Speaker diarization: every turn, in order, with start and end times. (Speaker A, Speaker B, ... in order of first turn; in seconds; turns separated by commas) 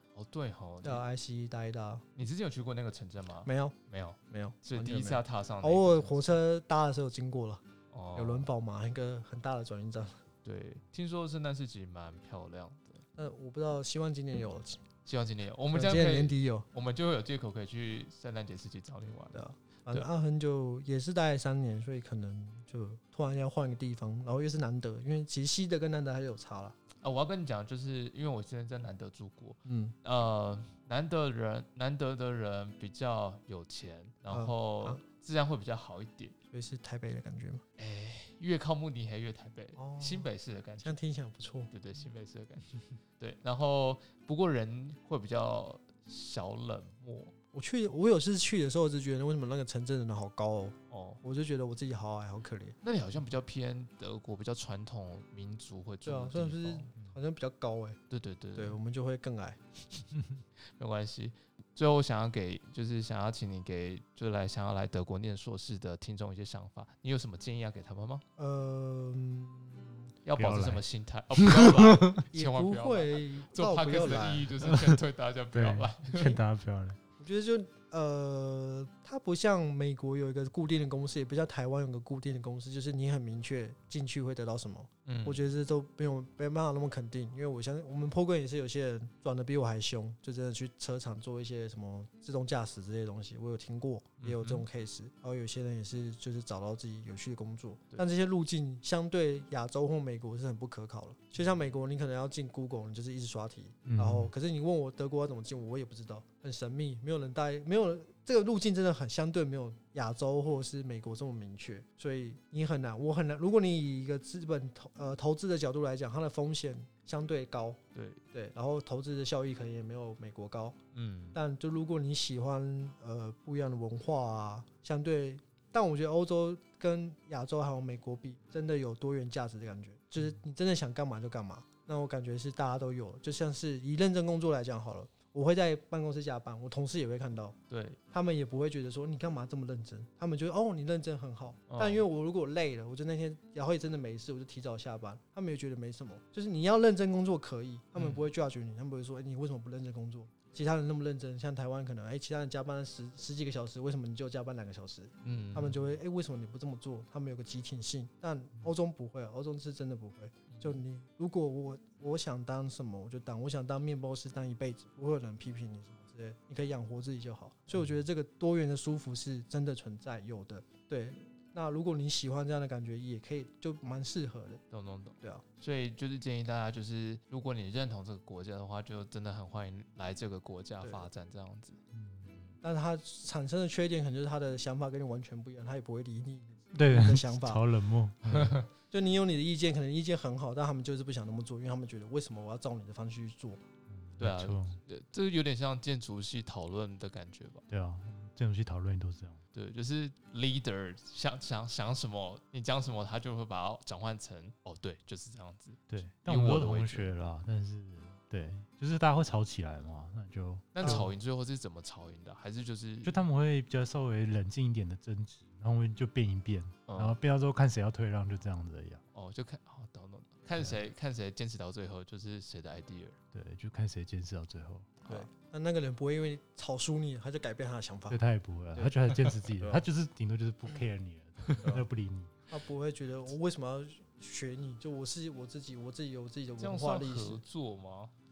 Speaker A: 0.1-1.0, Speaker B: 0.8-2.0, Speaker A: 2.1-6.4, Speaker B: 3.4-7.6, Speaker A: 7.9-8.5, Speaker B: 8.1-10.2, Speaker A: 10.4-13.0, Speaker B: 13.2-14.8, Speaker A: 15.0-20.1, Speaker B: 15.7-16.7, Speaker B: 19.3-26.8, Speaker A: 27.0-36.3, Speaker B: 29.6-29.9, Speaker B: 34.3-35.0, Speaker B: 36.5-37.6, Speaker A: 37.8-41.0, Speaker B: 39.8-41.7, Speaker A: 41.7-47.3, Speaker B: 47.5-52.8, Speaker A: 50.9-51.2, Speaker A: 52.8-56.9, Speaker B: 56.0-58.0, Speaker A: 58.1-58.8, Speaker B: 58.5-59.6, Speaker A: 60.8-68.2, Speaker B: 68.4-70.1, Speaker A: 70.2-76.4, Speaker C: 70.3-70.8, Speaker C: 71.3-72.1, Speaker B: 72.3-74.6, Speaker C: 74.6-75.0, Speaker C: 75.5-77.0, Speaker B: 77.2-117.8, Speaker A: 85.0-85.4, Speaker A: 94.2-94.6, Speaker C: 103.8-104.3, Speaker A: 117.9-118.2, Speaker B: 118.3-120.8, Speaker A: 120.9-121.4, Speaker B: 121.3-137.6, Speaker A: 137.7-138.0, Speaker B: 138.1-174.6, Speaker A: 141.7-142.0, Speaker A: 147.9-148.2, Speaker A: 155.2-155.8, Speaker A: 160.5-160.8, Speaker A: 174.7-181.8, Speaker B: 180.8-181.1, Speaker C: 181.9-182.3, Speaker B: 182.6-187.7, Speaker C: 186.7-188.6, Speaker A: 188.3-188.6, Speaker B: 188.8-193.6, Speaker C: 193.9-194.8, Speaker A: 194.2-197.6, Speaker C: 197.7-199.4, Speaker A: 199.5-207.1, Speaker C: 205.9-211.1, Speaker A: 210.7-213.2, Speaker C: 213.0-219.0, Speaker A: 216.9-217.2, Speaker A: 219.1-223.2, Speaker C: 223.3-224.9, Speaker A: 225.0-225.3, Speaker B: 225.1-228.2, Speaker C: 228.1-232.3, Speaker B: 228.7-229.9, Speaker B: 232.5-237.4, Speaker A: 236.6-238.1